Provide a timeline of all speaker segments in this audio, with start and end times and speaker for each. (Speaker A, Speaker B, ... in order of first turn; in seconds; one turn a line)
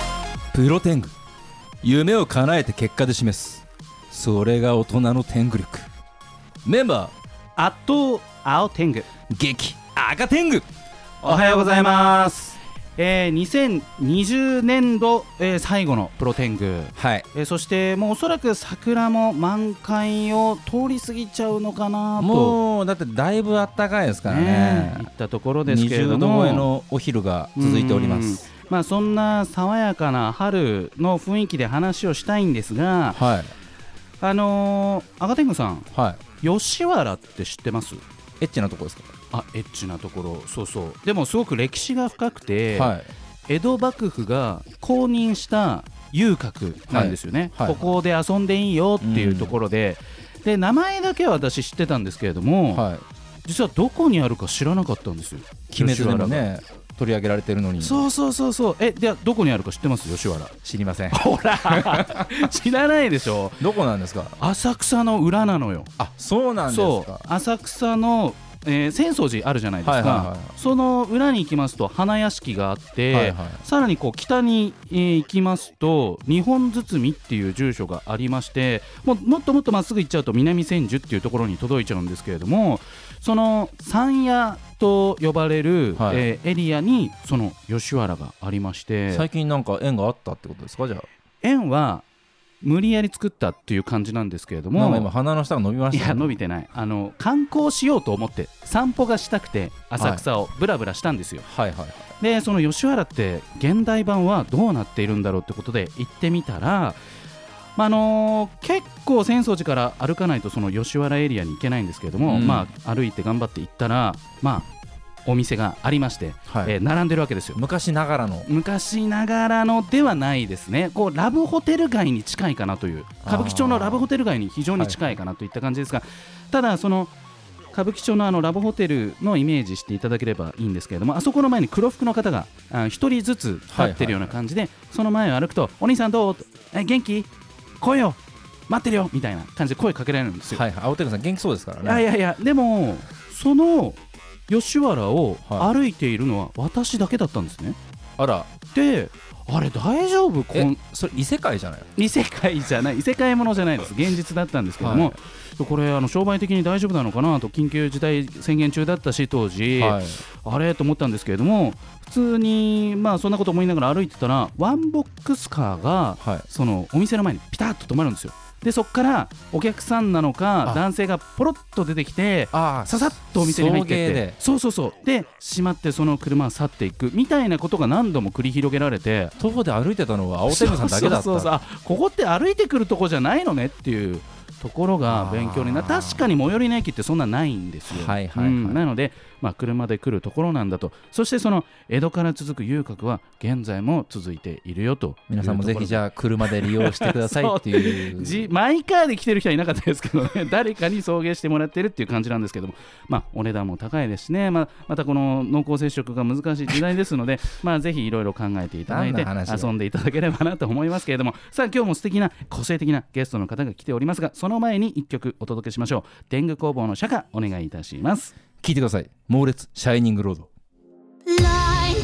Speaker A: 0.5-1.1
Speaker A: 1.8-5.9
Speaker A: 6.6-7.1
Speaker B: 7.5-9.1
Speaker A: 9.3-10.7
Speaker B: 11.2-22.6
Speaker A: 16.9-17.2
Speaker A: 22.2-25.1
Speaker B: 24.2-26.7
Speaker A: 25.6-28.4
Speaker B: 27.6-33.2
Speaker A: 33.1-33.5
Speaker B: 34.2-35.9
Speaker A: 35.9-36.2
Speaker B: 36.4-38.0
Speaker A: 38.4-39.1
Speaker B: 39.3-42.9
Speaker A: 42.7-43.1
Speaker B: 43.5-52.8
Speaker A: 46.9-47.8
Speaker A: 49.0-49.5
Speaker A: 52.7-53.0
Speaker B: 53.4-56.5
Speaker A: 55.7-58.0
Speaker B: 57.8-60.5
Speaker A: 60.6-62.3
Speaker B: 61.1-63.7
Speaker A: 63.6-64.3
Speaker B: 64.4-65.9
Speaker A: 66.0-67.2
Speaker B: 66.7-89.2
Speaker A: 69.8-70.5
Speaker A: 73.1-73.6
Speaker A: 86.0-86.2
Speaker A: 89.1-91.1
Speaker B: 91.4-92.0
Speaker B: 92.6-95.1
Speaker A: 94.7-96.3
Speaker B: 95.9-101.5
Speaker A: 100.0-100.2
Speaker A: 101.5-102.0
Speaker B: 102.2-107.0
Speaker B: 107.8-114.7
Speaker A: 112.2-112.7
Speaker B: 115.2-117.6
Speaker A: 116.5-116.7
Speaker A: 117.5-118.5
Speaker B: 118.5-127.1
Speaker A: 123.2-124.1
Speaker A: 124.8-125.0
Speaker B: 127.7-137.3
Speaker A: 133.7-134.4
Speaker B: 137.8-140.6
Speaker A: 140.5-142.0
Speaker B: 141.8-147.8
Speaker A: 145.4-145.7
Speaker A: 148.2-148.5
Speaker B: 148.7-150.8
Speaker A: 150.5-151.9
Speaker B: 151.9-179.3
Speaker A: 154.8-155.2
Speaker A: 159.7-160.2
Speaker A: 166.2-166.4
Speaker A: 172.5-174.4
Speaker A: 179.4-181.6
Speaker B: 180.5-218.3
Speaker A: 185.1-186.3
Speaker A: 187.9-188.8
Speaker A: 195.3-198.5
Speaker A: 208.9-209.7
Speaker A: 218.6-220.5